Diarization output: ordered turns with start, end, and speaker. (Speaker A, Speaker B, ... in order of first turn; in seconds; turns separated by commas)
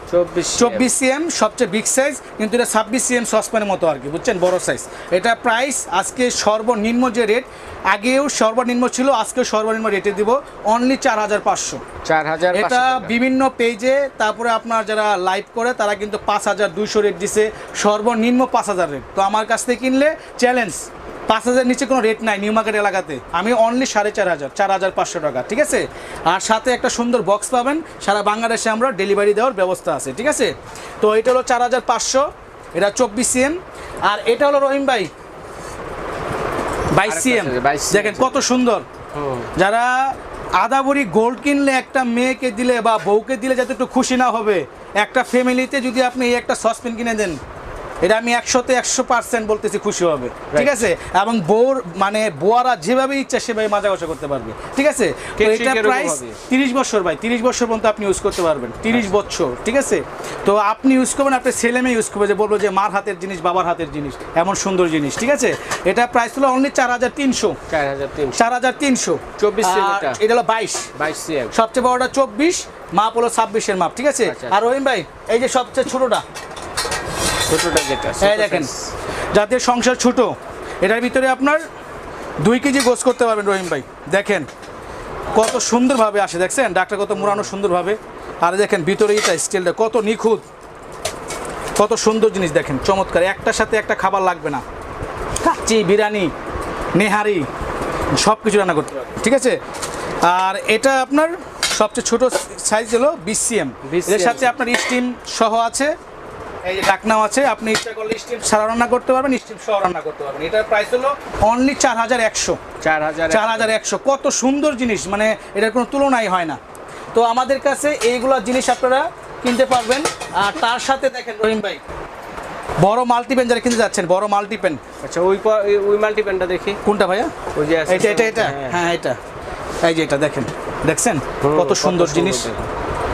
Speaker A: 0.1-0.9, Speaker B: 0.6-11.8, Speaker A: 12.0-13.1, Speaker B: 12.5-35.1, Speaker B: 36.9-38.8, Speaker A: 37.0-38.4, Speaker A: 39.1-39.5, Speaker B: 39.6-47.4, Speaker B: 48.0-67.6, Speaker A: 50.5-50.8, Speaker A: 55.4-56.4, Speaker A: 67.7-68.4, Speaker B: 68.4-70.9, Speaker A: 69.4-70.2, Speaker A: 71.0-71.5, Speaker B: 71.5-76.2, Speaker A: 74.2-74.6, Speaker A: 77.5-78.9, Speaker B: 78.2-78.7, Speaker B: 79.3-81.6, Speaker B: 82.4-84.5, Speaker B: 85.3-90.4, Speaker A: 87.2-87.5, Speaker B: 91.8-94.6, Speaker B: 95.4-96.3, Speaker B: 97.0-97.5, Speaker B: 98.2-99.6, Speaker B: 100.2-105.9, Speaker A: 103.8-104.5, Speaker B: 106.6-112.6, Speaker A: 112.8-113.7, Speaker B: 113.3-116.6, Speaker B: 117.1-121.8, Speaker B: 122.8-124.8, Speaker A: 125.0-126.8, Speaker B: 126.8-127.3, Speaker A: 127.5-128.8, Speaker B: 127.9-129.2, Speaker B: 129.8-132.5, Speaker A: 131.4-132.7